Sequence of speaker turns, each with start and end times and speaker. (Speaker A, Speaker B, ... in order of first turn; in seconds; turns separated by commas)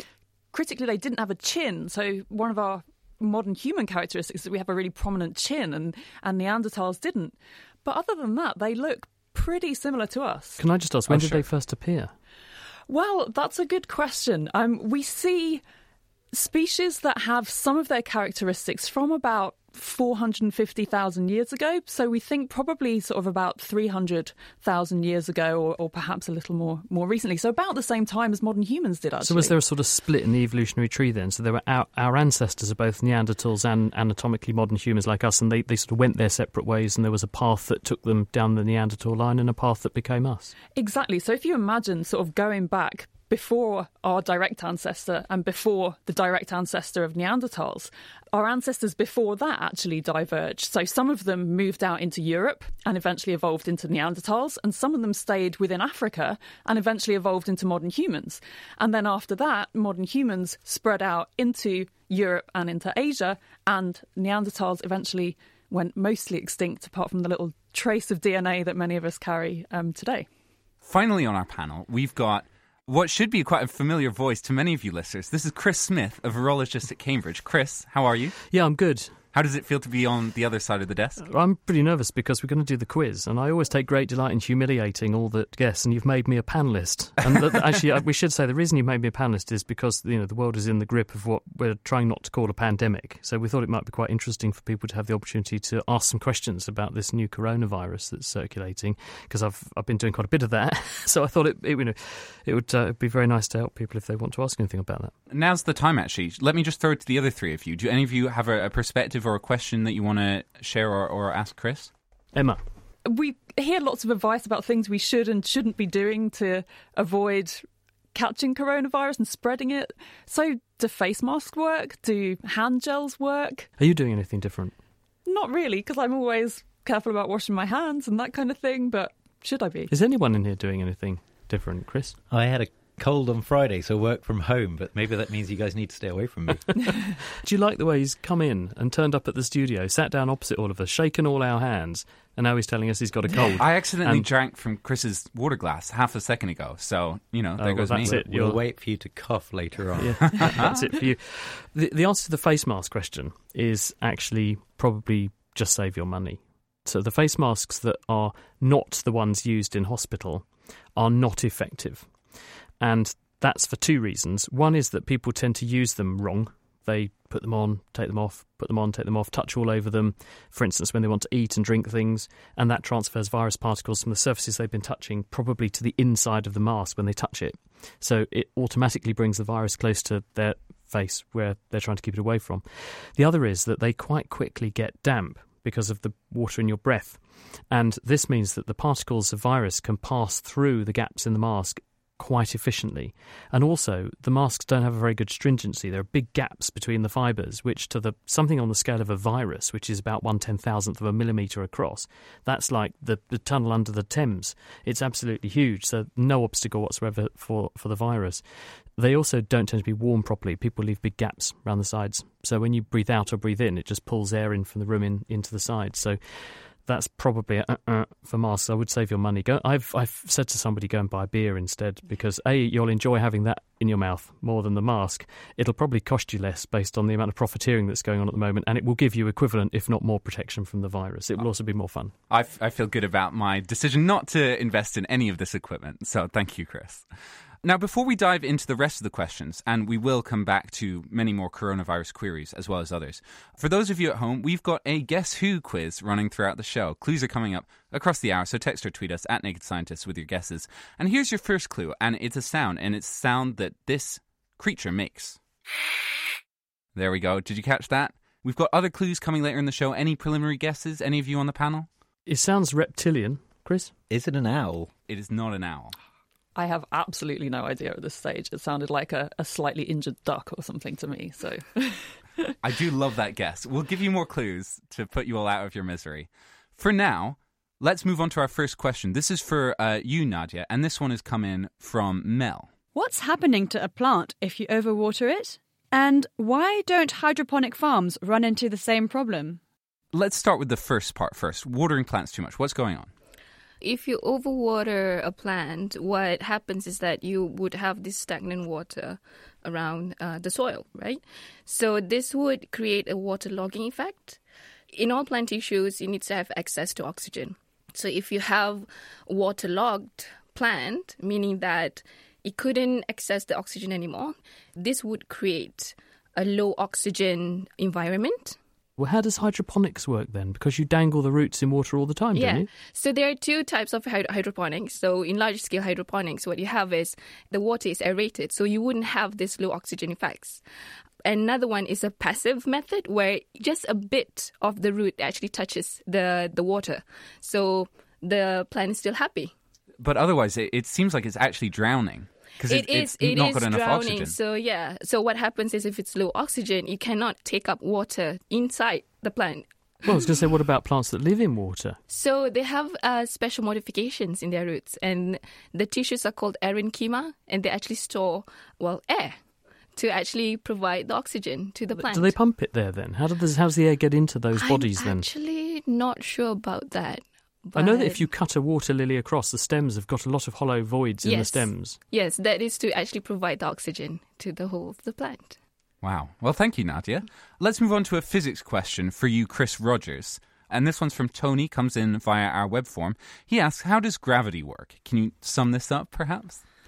Speaker A: 0.5-10.6, Speaker B: 10.6-12.1, Speaker C: 11.1-11.4, Speaker A: 12.9-15.6, Speaker A: 16.3-29.6, Speaker B: 29.2-40.5, Speaker A: 40.8-70.2, Speaker C: 70.8-78.4, Speaker B: 78.5-79.1, Speaker C: 79.3-81.2, Speaker B: 81.2-105.1, Speaker C: 105.3-111.9, Speaker B: 112.3-112.6, Speaker A: 113.0-117.6, Speaker A: 118.1-123.7, Speaker B: 123.8-124.8, Speaker A: 125.2-129.9, Speaker B: 129.9-132.2, Speaker D: 132.3-136.7, Speaker B: 137.4-144.2, Speaker C: 143.6-148.2, Speaker B: 147.6-148.6, Speaker D: 148.0-150.7, Speaker B: 150.0-162.1, Speaker C: 150.4-150.8, Speaker B: 162.8-208.4, Speaker B: 209.0-232.1, Speaker C: 232.3-237.0, Speaker C: 237.6-255.4, Speaker C: 257.0-261.9, Speaker B: 262.3-263.9, Speaker D: 264.1-264.9, Speaker C: 265.1-265.9, Speaker A: 266.6-272.1, Speaker C: 272.6-282.7, Speaker E: 282.9-289.6, Speaker C: 290.1-293.1, Speaker F: 293.8-304.4, Speaker F: 304.9-318.6, Speaker B: 319.0-322.7, Speaker F: 322.3-330.6, Speaker F: 331.2-339.5, Speaker C: 340.0-344.4, Speaker F: 342.7-349.6, Speaker B: 350.1-352.0, Speaker F: 352.1-359.4, Speaker F: 360.0-362.3, Speaker B: 362.0-365.2, Speaker F: 364.6-368.2, Speaker B: 367.8-372.0, Speaker F: 371.2-375.6, Speaker C: 376.0-386.6